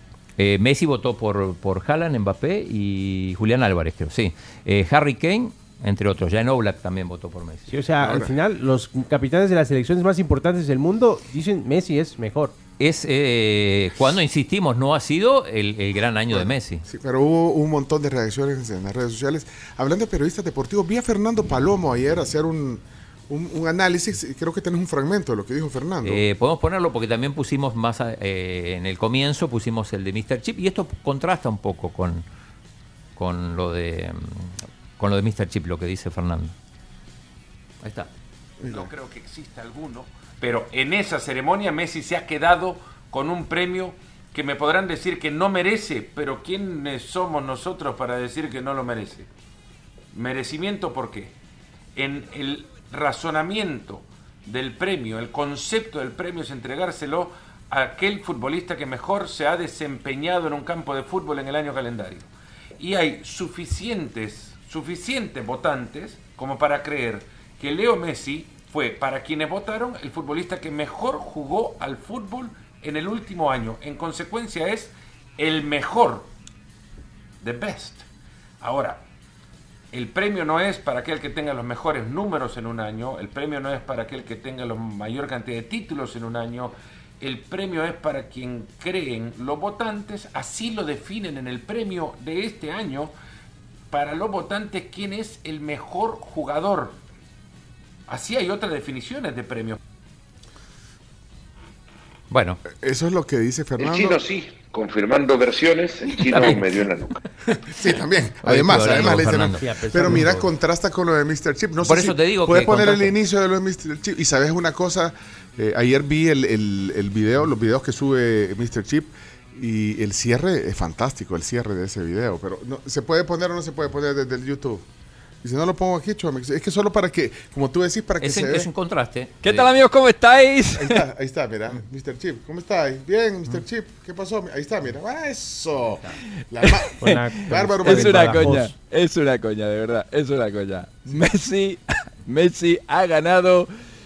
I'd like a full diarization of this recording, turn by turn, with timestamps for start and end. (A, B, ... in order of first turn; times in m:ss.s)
0:00.4-0:07.7 A
0:07.7-0:12.5 B
0:08.0-0:08.3 C
0:12.8-0:16.8 A
0:16.3-0:26.2 C
0:26.0-0:32.2 A
0:33.2-0:36.5 A
0:37.8-0:38.1 A
0:38.6-0:38.9 C
0:38.6-0:49.3 D
0:50.1-0:51.3 D
0:52.0-1:16.3 D
1:17.4-1:18.0 D
1:18.6-1:19.0 D
1:19.9-1:33.1 D
1:33.9-1:37.0 D
1:38.1-1:39.8 D
1:42.3-1:42.6 A
1:42.7-1:44.2 C
1:43.8-1:47.2 E
1:46.2-1:46.6 A
1:47.6-2:04.9 C
1:48.4-1:50.4 A
1:49.2-1:50.4 B
1:51.8-1:53.2 A
2:05.4-2:08.7 C
2:08.2-2:09.7 A
2:09.4-2:11.0 F
2:10.8-2:18.6 C
2:17.0-2:18.7 B
2:17.8-2:23.7 F